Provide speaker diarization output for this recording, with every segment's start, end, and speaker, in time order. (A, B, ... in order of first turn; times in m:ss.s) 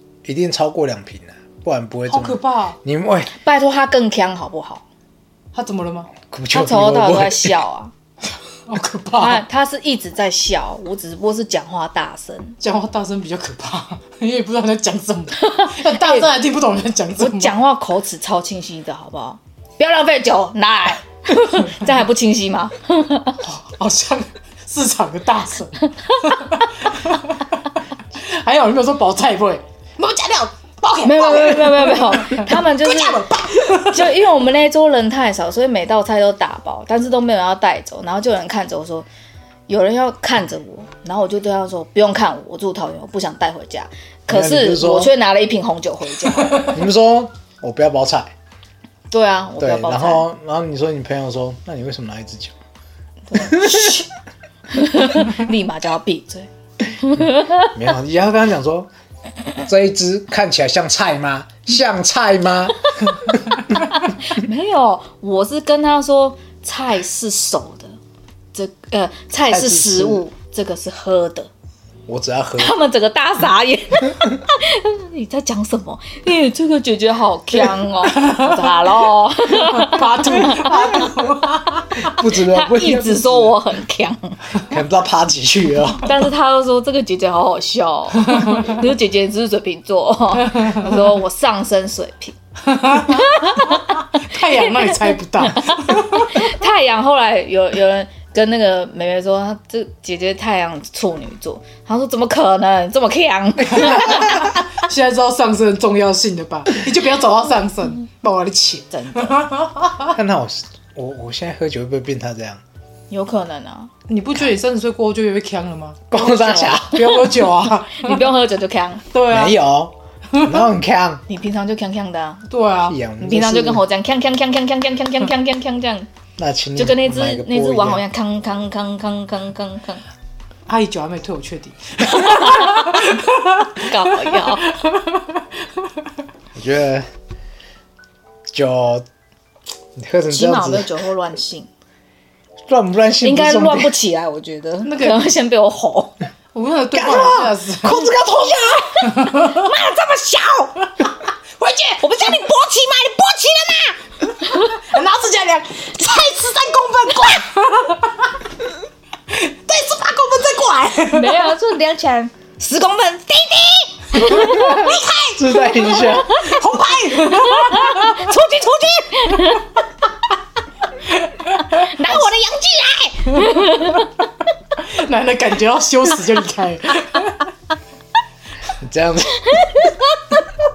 0:00.2-0:03.3 A
0:02.1-0:02.8 B
0:03.3-0:04.8 C
0:05.5-0:06.1 B
0:06.3-0:07.6 A
0:06.5-0:07.9 C
0:08.7-0:09.4 B
0:09.1-0:12.6 C
0:12.6-0:17.5 B
0:15.4-0:16.3 C
0:17.2-0:23.4 C
0:23.4-0:34.1 B
0:26.0-0:26.3 C
0:31.0-0:39.1 C
0:39.7-0:46.8 C
0:44.3-0:45.1 A
0:46.7-0:48.3 A
0:49.1-0:50.2 C
0:49.6-0:52.5 A
0:53.3-0:54.1 C
0:53.4-0:53.9 A
0:54.7-0:57.7 C
0:57.7-0:58.9 A
0:59.6-1:03.4 A
1:04.2-1:07.9 C
1:08.5-1:11.5 C
1:09.5-1:10.2 A
1:12.1-1:12.8 A
1:12.6-1:21.1 C
1:18.1-1:18.5 B
1:19.6-1:22.1 B
1:22.0-1:23.6 A
1:22.3-1:24.4 C
1:24.7-1:26.1 A
1:26.0-1:32.4 C
1:28.2-1:28.8 B
1:30.4-1:30.9 B
1:32.6-1:36.4 B
1:32.9-1:44.5 C
1:43.7-1:50.1 B
1:48.9-1:49.4 C
1:50.1-1:52.6 A
1:53.1-1:53.9 C
1:54.1-1:58.3 B
1:56.1-1:57.4 A
1:57.9-1:59.1 C
1:59.1-1:59.5 B
1:59.3-2:01.2 A
2:01.3-2:02.5 C
2:02.5-2:03.0 B
2:02.9-2:03.8 A
2:03.2-2:06.1 C
2:06.4-2:08.0 A
2:06.8-2:10.0 C
2:10.7-2:15.4 B
2:12.1-2:13.1 C
2:13.8-2:14.6 C
2:16.5-2:17.0 A
2:18.5-2:19.0 A
2:20.0-2:20.9 A
2:20.3-2:21.7 C
2:22.7-2:23.9 A
2:23.2-2:26.2 C
2:24.8-2:25.2 B
2:26.5-2:28.0 B
2:26.9-2:28.9 A
2:28.0-2:31.0 C
2:29.2-2:29.5 B
2:31.6-2:32.0 B
2:32.0-2:34.8 C
2:34.6-2:38.3 B
2:39.3-2:41.5 B
2:41.1-2:49.8 C
2:44.3-2:46.4 A
2:44.6-2:45.3 B
2:46.0-2:48.2 B
2:51.1-2:51.9 B
2:51.7-2:54.2 C
2:54.8-2:57.5 B
2:58.8-2:59.7 A
2:59.5-3:00.4 C